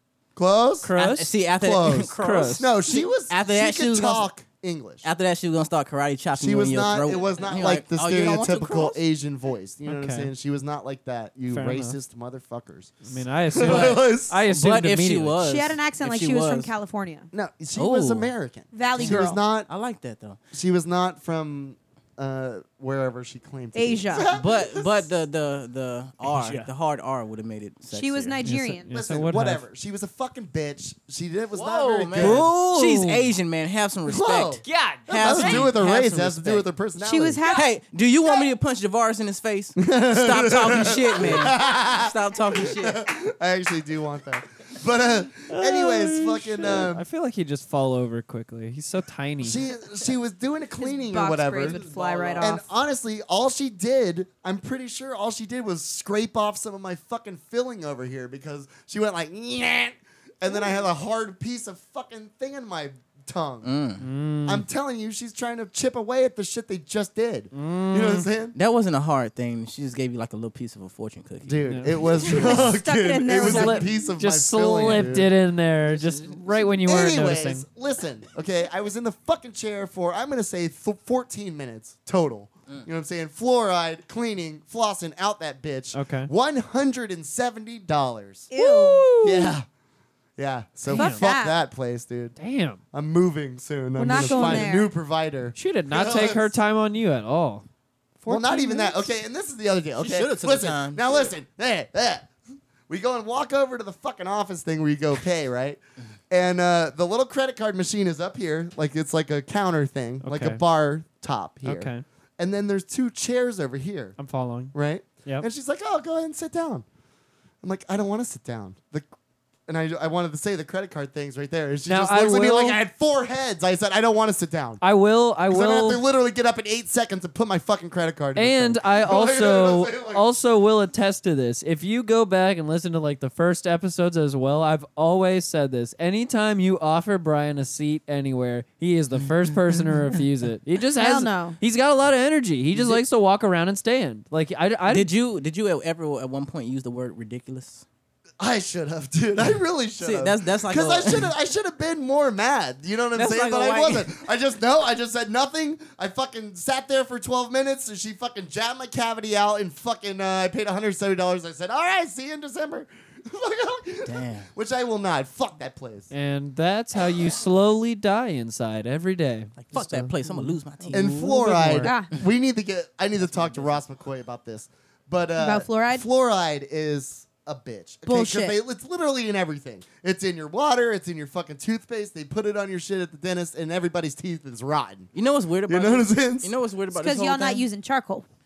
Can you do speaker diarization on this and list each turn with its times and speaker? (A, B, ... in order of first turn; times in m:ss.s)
0:00.4-0:00.9 A
0:00.8-0:01.3 B
0:01.0-0:04.3 C
0:01.6-0:05.1 A
0:02.2-0:02.7 B
0:05.0-0:09.0 C
0:06.4-0:14.4 A
0:09.9-0:10.3 B
0:11.5-0:12.0 B
0:13.0-0:15.4 B
0:13.6-0:16.7 C
0:15.4-0:17.3 D
0:17.3-0:19.7 A
0:17.7-0:18.3 C
0:18.7-0:19.4 D
0:19.0-0:20.4 C
0:20.5-0:25.1 A
0:23.8-0:24.3 D
0:24.3-0:28.4 C
0:26.3-0:26.7 B
0:27.9-0:28.9 D
0:28.4-0:29.6 B
0:28.9-0:32.5 A
0:31.5-0:36.7 C
0:32.2-0:33.3 B
0:34.1-0:37.4 A
0:34.7-0:35.7 B
0:37.0-0:37.7 D
0:37.5-0:43.0 C
0:39.8-0:47.0 A
0:45.5-0:49.6 B
0:49.4-0:51.8 A
0:51.1-0:52.7 D
0:51.6-0:52.5 C
0:52.4-1:03.7 A
1:03.6-1:04.0 C
1:04.0-1:04.7 B
1:04.4-1:08.6 A
1:07.5-1:08.3 B
1:08.6-1:11.6 C
1:11.4-1:15.3 A
1:11.7-1:11.9 B
1:12.3-1:13.9 D
1:13.4-1:17.6 B
1:15.9-1:16.4 C
1:16.8-1:28.5 A
1:25.9-1:26.3 B
1:28.5-1:29.5 D
1:28.6-1:29.2 B
1:29.2-1:29.7 A
1:30.4-1:32.4 A
1:30.9-1:31.3 B
1:30.9-1:31.6 D
1:32.4-1:32.8 B
1:32.9-1:36.5 A
1:34.0-1:34.9 D
1:34.1-1:34.7 B
1:35.6-1:37.7 B
1:38.2-1:38.9 B
1:38.3-1:42.3 A
1:40.0-1:41.0 C
1:42.9-1:54.2 A
1:50.2-1:50.6 B
1:51.6-1:52.0 B
1:54.2-1:54.8 B
1:54.7-1:56.8 A
1:57.6-1:59.1 A
1:59.7-2:04.8 A
2:01.9-2:02.8 B
2:04.8-2:06.0 B
2:05.5-2:10.3 A
2:08.4-2:25.1 B
2:21.0-2:21.6 D
2:24.9-2:27.8 C
2:28.4-2:46.1 A
2:30.0-2:31.3 C
2:33.2-2:34.2 C
2:44.0-2:44.5 C
2:46.1-2:51.9 B
2:49.6-2:51.1 C
2:50.9-3:05.1 A
2:51.8-2:52.1 D
2:53.2-2:53.8 C
2:55.4-2:56.0 D
2:58.1-2:58.6 D
3:05.1-3:07.6 C
3:05.7-3:06.5 A
3:06.9-3:08.3 D